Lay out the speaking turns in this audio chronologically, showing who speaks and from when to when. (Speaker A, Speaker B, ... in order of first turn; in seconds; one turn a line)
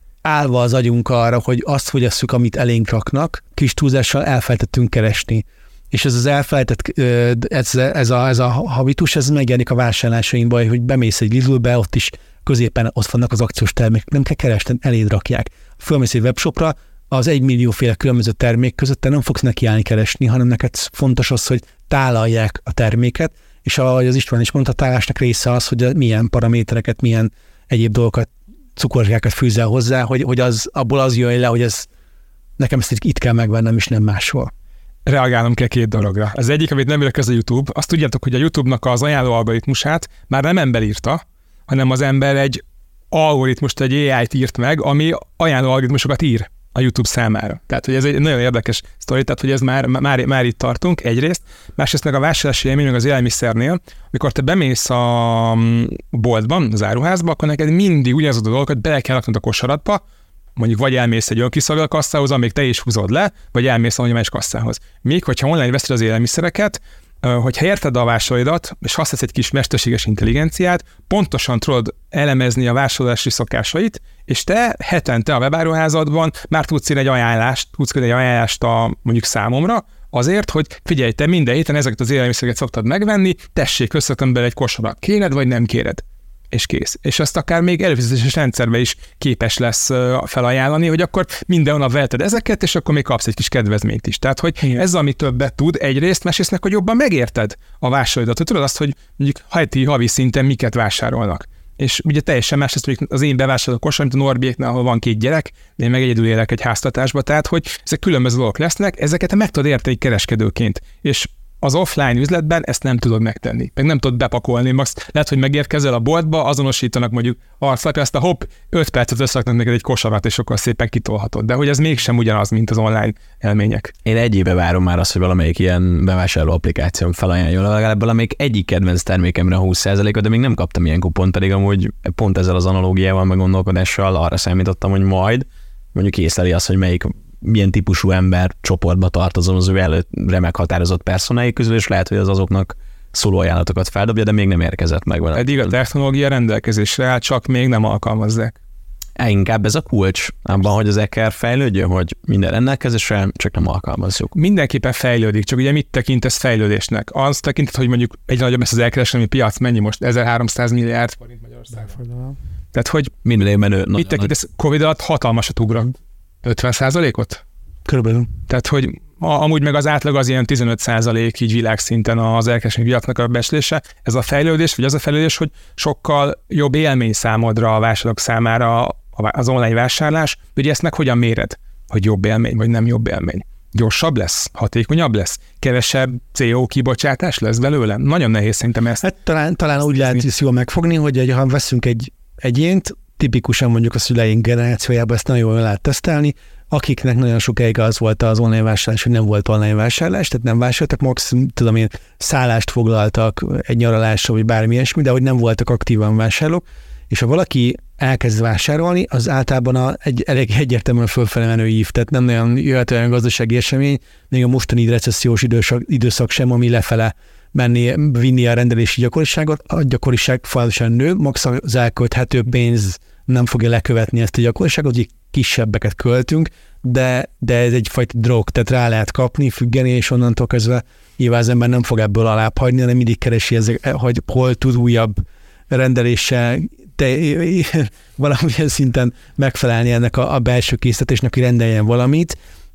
Speaker A: 0.2-31.9
Speaker A: 32.6-34.5
Speaker B: 35.1-42.6
Speaker B: 43.1-60.0
Speaker B: 60.6-123.9
Speaker C: 124.1-145.5
Speaker B: 145.4-148.6
Speaker C: 149.2-154.3
Speaker B: 154.3-162.0
Speaker A: 161.9-162.4
Speaker B: 162.7-163.1
Speaker C: 163.2-164.3
Speaker B: 164.0-167.4
Speaker A: 167.9-168.3
Speaker B: 168.5-189.1
Speaker A: 189.0-242.4